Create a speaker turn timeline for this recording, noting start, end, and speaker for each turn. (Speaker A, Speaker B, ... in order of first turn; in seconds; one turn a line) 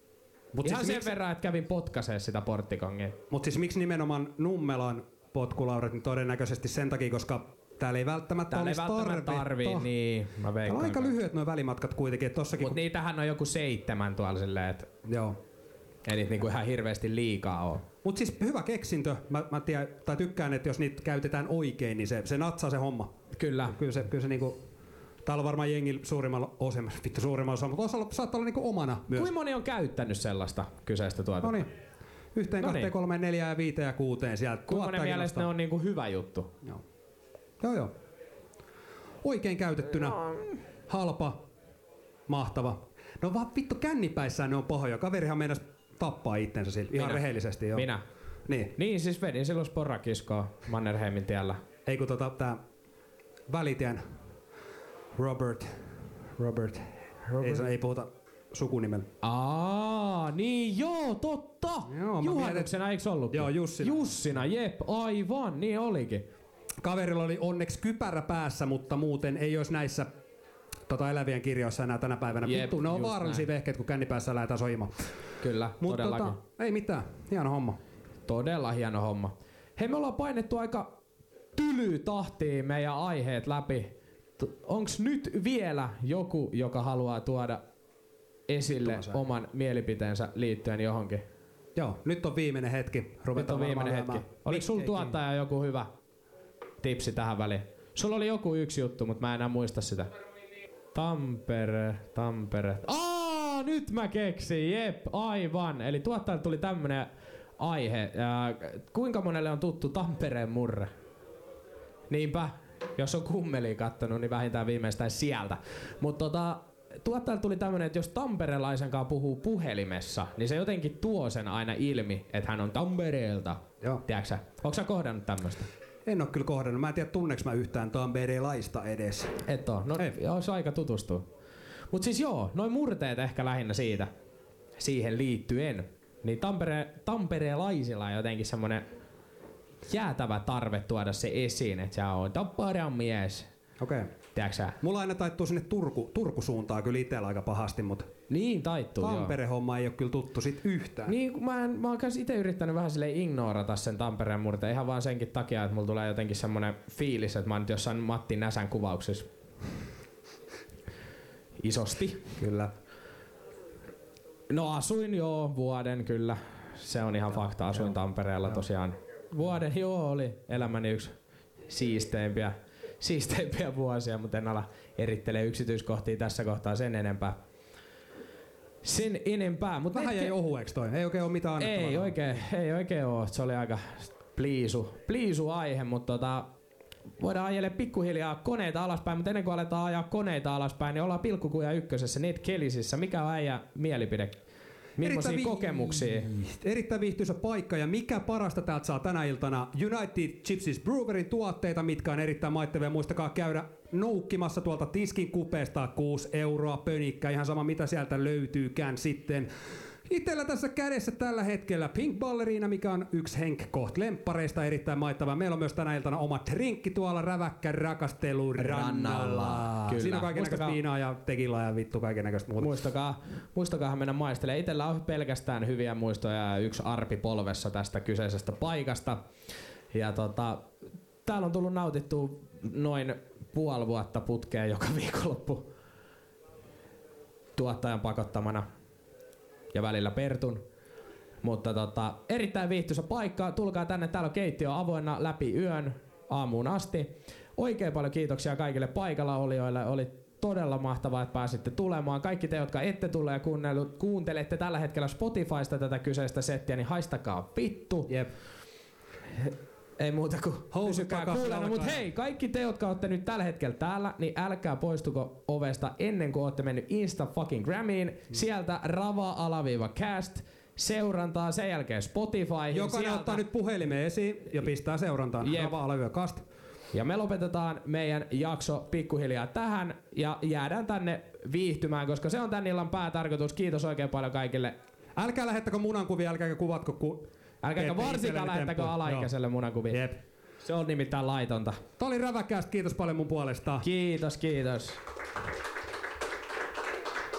Speaker A: 0.5-1.1
Speaker B: 0.6-3.2
Speaker A: 3.3-9.9
Speaker B: 8.5-11.1
Speaker A: 10.6-12.8
Speaker B: 12.6-14.9
Speaker A: 15.0-15.4
Speaker B: 16.0-17.8
Speaker A: 18.0-23.1
Speaker B: 23.3-23.8
Speaker A: 23.7-24.6
Speaker A: 25.2-29.3
Speaker B: 29.1-31.6
Speaker A: 31.4-31.7
Speaker A: 32.3-35.5
Speaker B: 32.6-32.9
Speaker B: 34.7-36.5
Speaker A: 37.6-37.9
Speaker A: 39.2-40.3
Speaker A: 40.9-41.4
Speaker A: 42.3-47.9
Speaker B: 46.9-48.0
Speaker A: 48.5-48.7
Speaker B: 48.7-51.6
Speaker A: 51.8-52.6
Speaker A: 53.5-54.0
Speaker A: 55.1-59.1
Speaker B: 57.3-57.7
Speaker B: 59.2-66.2
Speaker A: 61.9-62.7
Speaker A: 63.3-64.3
Speaker A: 66.8-70.1
Speaker A: 70.9-74.9
Speaker B: 72.4-73.5
Speaker B: 75.4-76.4
Speaker A: 75.8-77.8
Speaker B: 78.2-80.9
Speaker B: 81.5-87.6
Speaker B: 88.5-91.2
Speaker A: 88.8-89.2
Speaker A: 91.8-95.2
Speaker B: 93.3-95.9
Speaker B: 96.8-100.1
Speaker B: 100.9-110.9
Speaker B: 112.1-125.7
Speaker A: 126.0-129.4
Speaker B: 129.4-131.3
Speaker B: 131.9-134.1
Speaker B: 134.8-138.8
Speaker B: 139.8-143.5
Speaker A: 143.8-144.1
Speaker B: 144.3-144.8
Speaker A: 144.8-148.1
Speaker B: 148.3-149.3
Speaker A: 149.0-151.2
Speaker B: 151.1-159.2
Speaker B: 161.6-162.3
Speaker A: 162.4-162.7
Speaker B: 164.5-171.1
Speaker B: 171.7-177.4
Speaker B: 178.8-180.3
Speaker A: 179.9-182.2
Speaker B: 181.6-186.5
Speaker B: 187.2-194.4
Speaker B: 195.0-196.3
Speaker A: 195.0-209.5
Speaker A: 210.1-222.8
Speaker B: 218.6-220.8
Speaker B: 222.6-229.2
Speaker B: 229.9-230.7
Speaker B: 231.2-235.7
Speaker B: 237.6-238.6
Speaker B: 239.7-240.6
Speaker B: 241.4-258.1
Speaker B: 259.4-273.4
Speaker A: 260.7-262.1
Speaker A: 272.7-276.4
Speaker B: 275.4-275.7
Speaker B: 276.9-284.8
Speaker A: 285.1-289.3
Speaker B: 287.6-290.1
Speaker A: 289.9-290.2
Speaker B: 290.6-291.8
Speaker A: 292.0-293.8
Speaker B: 293.8-295.0